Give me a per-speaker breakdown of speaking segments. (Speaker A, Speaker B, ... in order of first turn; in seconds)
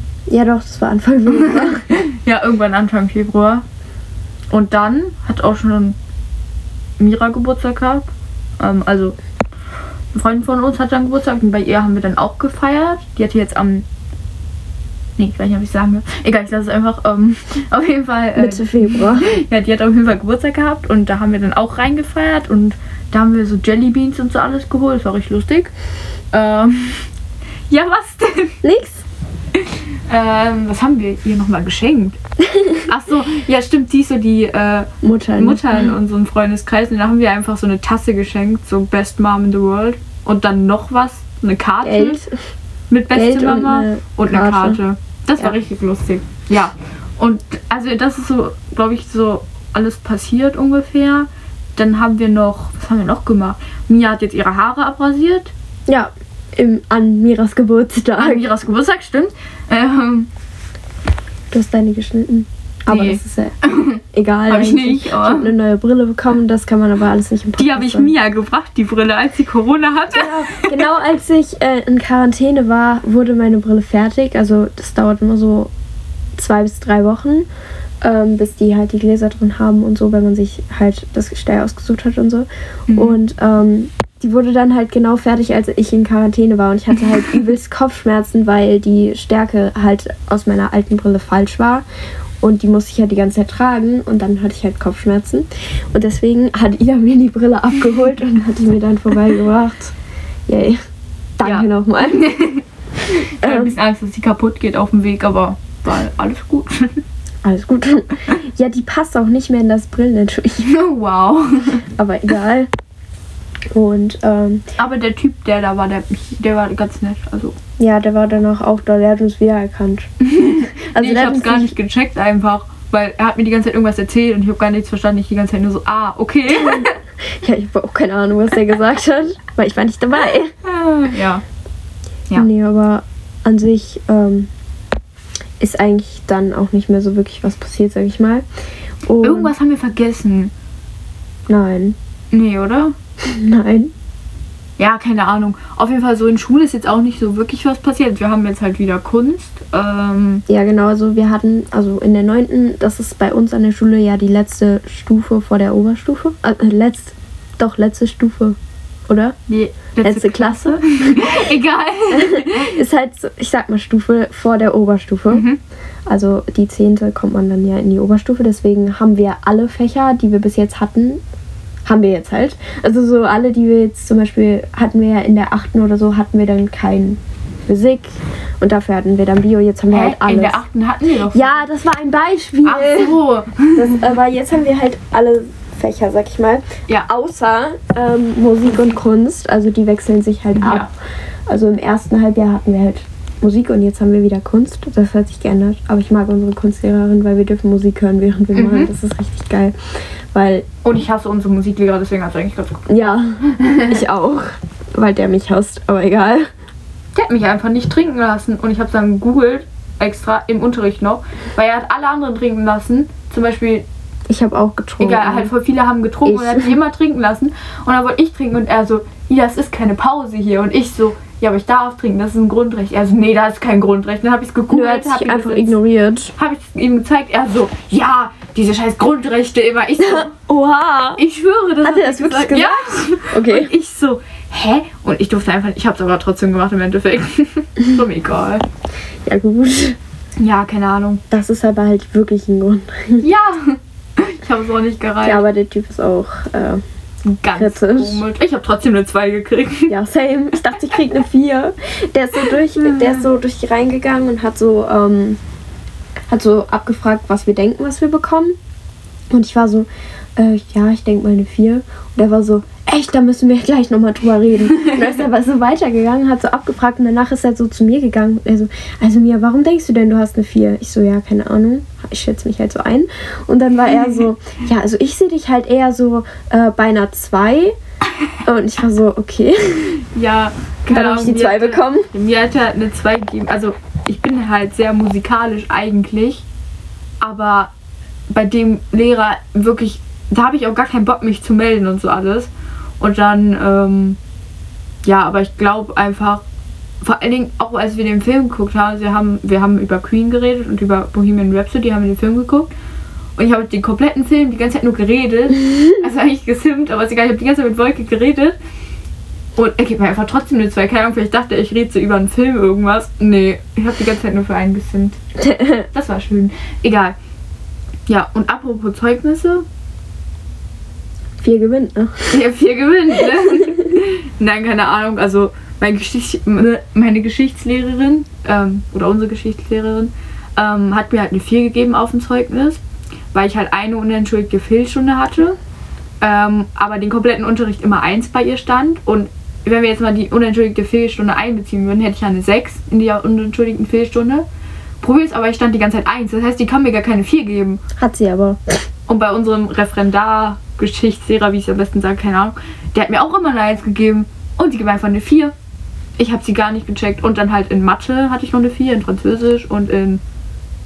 Speaker A: 0.3-1.9, 18.4-19.3, 28.6-29.0, 32.4-32.8, 35.0-35.9, 41.8-42.3, 43.1-44.8, 55.9-58.5, 61.5-63.6, 64.1-68.1, 70.1-75.7, 76.4-77.5, 78.0-91.8, 92.4-99.9, 100.5-100.8, 101.4-102.4, 103.2-103.8, 107.4-110.7, 111.9-112.7, 113.7-114.7, 117.8-120.1, 120.8-121.7, 126.5-130.5, 132.3-134.5, 135.6-138.4, 139.1-139.5, 141.5-141.9, 143.2-143.9, 150.5-158.6, 159.1-159.4, 160.0-161.4, 162.1-165.4, 166.1-171.2, 171.8-180.6, 181.3-183.2, 183.7-190.9, 191.5-199.8, 200.3-200.7, 202.9-206.5, 214.3-215.5, 216.2-216.8, 224.7-226.3, 230.0-231.2, 231.8-233.7, 239.3-240.0, 241.3-243.3, 245.2-246.8, 247.6-248.2, 249.9-255.4, 256.3-258.6, 259.3-277.8, 278.4-280.0, 280.9-282.1, 315.4-315.8, 321.4-322.4, 348.0-348.8
Speaker B: 1.3-3.6, 4.5-6.0, 7.0-9.2, 10.1-13.9, 15.2-25.7, 26.3-27.1, 27.7-28.6, 29.5-32.2, 32.8-42.2, 42.9-55.5, 58.2-60.3, 62.9-65.5, 67.6-70.7, 82.9-83.2, 101.4-107.0, 110.6-111.8, 114.8-117.6, 120.2-126.9, 130.7-131.4, 139.2-140.5, 142.3-142.9, 144.8-150.4, 159.5-162.8, 165.3-165.6, 179.9-181.6, 182.6-184.0, 190.6-190.9, 198.6-198.9, 200.8-204.0, 207.2-213.8, 215.0-225.8, 226.4-230.3, 231.2-238.6, 240.4-241.2, 243.2-245.4, 247.2-249.9, 252.8-253.3, 280.0-286.4, 287.2-287.7, 288.3-294.2, 295.0-296.4, 297.0-302.7, 303.4-308.6, 309.6-315.2, 315.9-317.1, 318.1-319.7, 322.3-332.8, 333.3-335.6, 336.2-344.4, 345.0-347.8, 349.1-355.5, 356.2-360.2